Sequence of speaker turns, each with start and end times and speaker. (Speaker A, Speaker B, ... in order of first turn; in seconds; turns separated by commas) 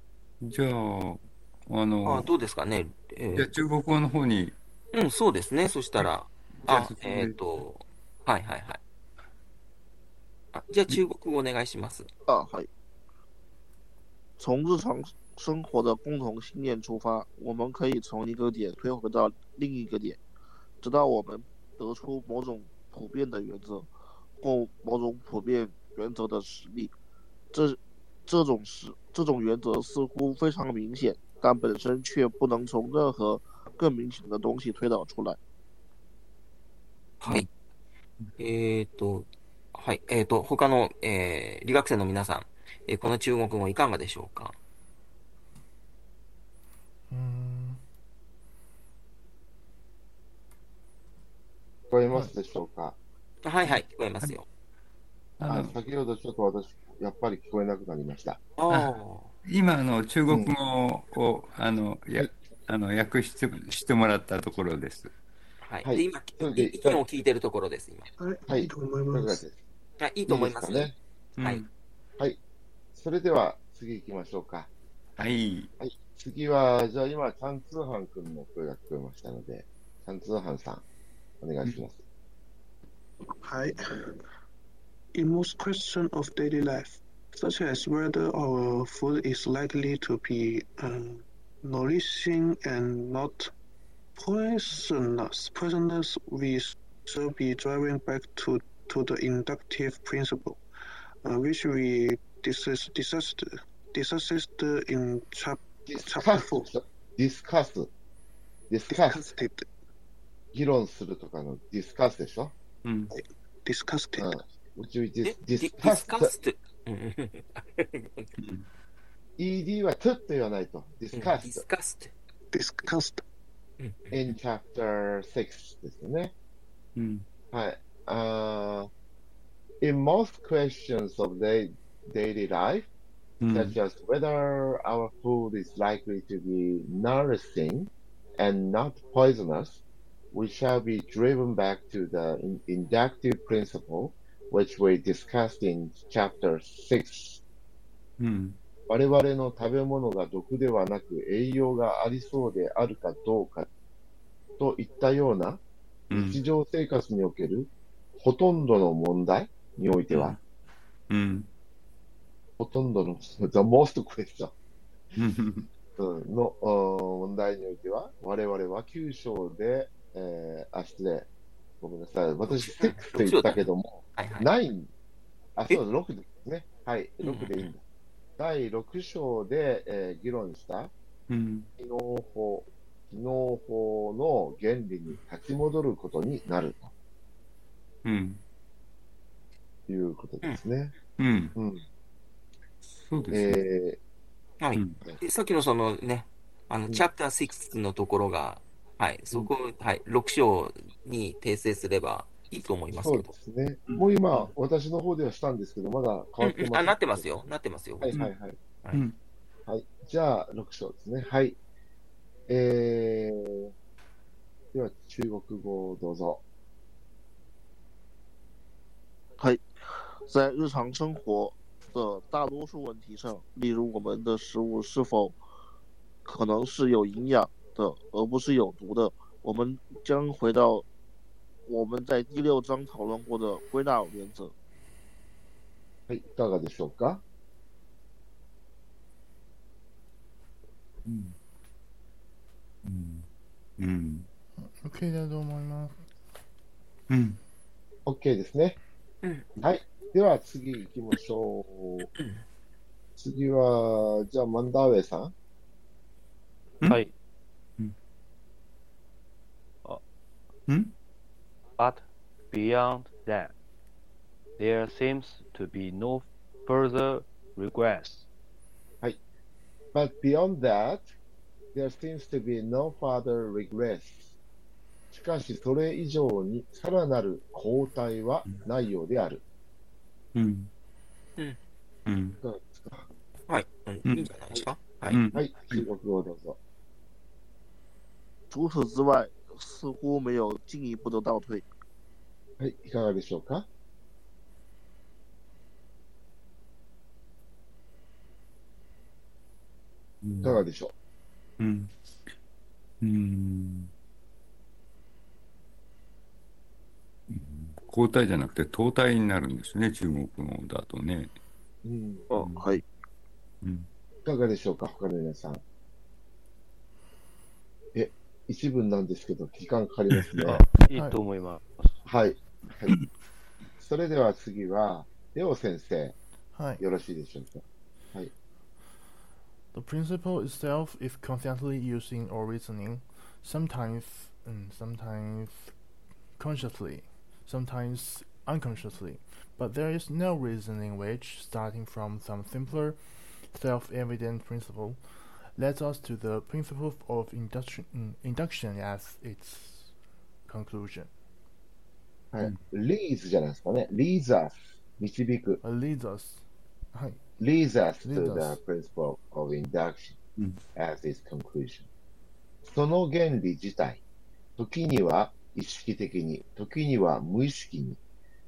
Speaker A: 0.4-2.3, Speaker B: 2.0-3.5, Speaker A: 3.3-4.5, Speaker B: 4.9-8.8, Speaker A: 6.6-7.4, Speaker B: 10.5-12.1, Speaker C: 12.3-12.7, Speaker C: 14.4-20.2, Speaker C: 20.8-26.9, Speaker C: 27.5-35.4, Speaker B: 37.2-37.5, Speaker B: 38.4-44.5, Speaker D: 47.1-47.8, Speaker E: 51.9-53.0, Speaker B: 53.4-54.5, Speaker A: 53.6-54.3, Speaker A: 55.4-55.8, Speaker E: 55.5-58.4, Speaker B: 58.6-59.3, Speaker A: 59.4-65.1, Speaker B: 65.6-68.1, Speaker E: 65.8-67.0, Speaker F: 68.2-69.4, Speaker E: 68.5-69.6, Speaker B: 70.0-71.6, Speaker E: 70.3-70.9, Speaker A: 71.4-71.7, Speaker E: 72.9-74.7, Speaker A: 75.2-75.7, Speaker E: 75.8-80.8, Speaker E: 81.4-82.0, Speaker F: 83.4-84.2, Speaker F: 85.1-93.5, Speaker F: 94.2-100.6, Speaker F: 101.2-106.7, Speaker E: 105.9-107.9, Speaker E: 108.7-109.3, Speaker F: 108.9-109.7, Speaker E: 110.5-112.5, Speaker A: 112.8-113.1, Speaker F: 113.1-114.4, Speaker E: 114.2-116.3, Speaker B: 115.2-118.3, Speaker A: 118.4-118.6, Speaker E: 119.4-121.6, Speaker B: 121.1-122.1, Speaker F: 122.5-123.2, Speaker B: 123.8-124.1, Speaker E: 124.1-126.3, Speaker A: 127.0-127.2, Speaker E: 127.5-128.9, Speaker E: 129.8-132.9, Speaker A: 133.4-133.8, Speaker E: 133.5-147.4, Speaker A: 148.2-148.6, Speaker E: 148.9-153.7, Speaker E: 154.6-160.4, Speaker A: 156.1-156.4, Speaker A: 160.1-160.4, Speaker A: 161.1-161.5, Speaker E: 162.6-164.5, Speaker A: 165.2-165.7, Speaker E: 166.0-171.3, Speaker E: 171.8-174.9, Speaker B: 172.4-174.5, Speaker E: 175.6-177.8, Speaker B: 177.2-177.7, Speaker E: 178.4-180.9, Speaker A: 181.3-181.7, Speaker E: 181.8-186.9, Speaker A: 188.0-188.4, Speaker E: 189.9-190.9, Speaker A: 191.2-191.6, Speaker E: 191.5-191.8, Speaker A: 192.9-193.6, Speaker E: 193.3-194.0, Speaker B: 194.6-203.3, Speaker A: 194.8-195.0, Speaker E: 202.9-207.4, Speaker B: 206.4-208.1, Speaker E: 208.0-208.6, Speaker E: 209.7-211.6, Speaker E: 212.5-213.7, Speaker E: 214.7-216.4, Speaker C: 219.4-219.7, Speaker C: 220.2-225.4, Speaker C: 226.2-230.8, Speaker C: 231.7-234.5, Speaker E: 236.1-237.2, Speaker A: 241.0-241.3, Speaker A: 242.8-243.2, Speaker A: 243.8-244.3, Speaker D: 244.8-246.0, Speaker A: 247.1-247.4, Speaker E: 248.1-248.8, Speaker E: 249.6-252.1, Speaker B: 252.1-252.4, Speaker E: 253.2-255.3, Speaker G: 256.8-257.1, Speaker A: 260.7-260.9, Speaker G: 261.8-263.5, Speaker G: 264.6-268.2, Speaker E: 269.9-271.1, Speaker E: 271.8-274.3, Speaker E: 275.1-279.4, Speaker A: 280.3-280.7, Speaker A: 282.1-282.4, Speaker E: 282.4-283.1, Speaker B: 283.5-285.2, Speaker A: 285.1-285.8, Speaker E: 285.3-286.6, Speaker C: 288.5-291.6, Speaker E: 292.6-293.6, Speaker A: 300.2-300.6, Speaker E: 300.4-300.9, Speaker A: 301.6-301.9, Speaker A: 303.0-303.9, Speaker A: 307.3-311.3, Speaker E: 311.8-312.3, Speaker C: 312.3-312.8, Speaker A: 312.3-312.7, Speaker A: 313.6-313.9, Speaker E: 314.2-315.6, Speaker E: 317.9-320.6, Speaker G: 320.4-322.0, Speaker D: 320.9-321.2, Speaker E: 322.1-322.9, Speaker E: 323.8-326.2, Speaker D: 326.5-326.8, Speaker E: 326.8-327.6, Speaker D: 329.7-335.7, Speaker D: 336.4-349.9, Speaker D: 350.4-351.1, Speaker E: 352.3-355.6, Speaker D: 355.6-356.4, Speaker D: 356.9-357.2, Speaker E: 357.4-360.2, Speaker D: 358.0-358.6, Speaker E: 360.8-361.9, Speaker E: 362.6-364.0, Speaker E: 364.6-368.0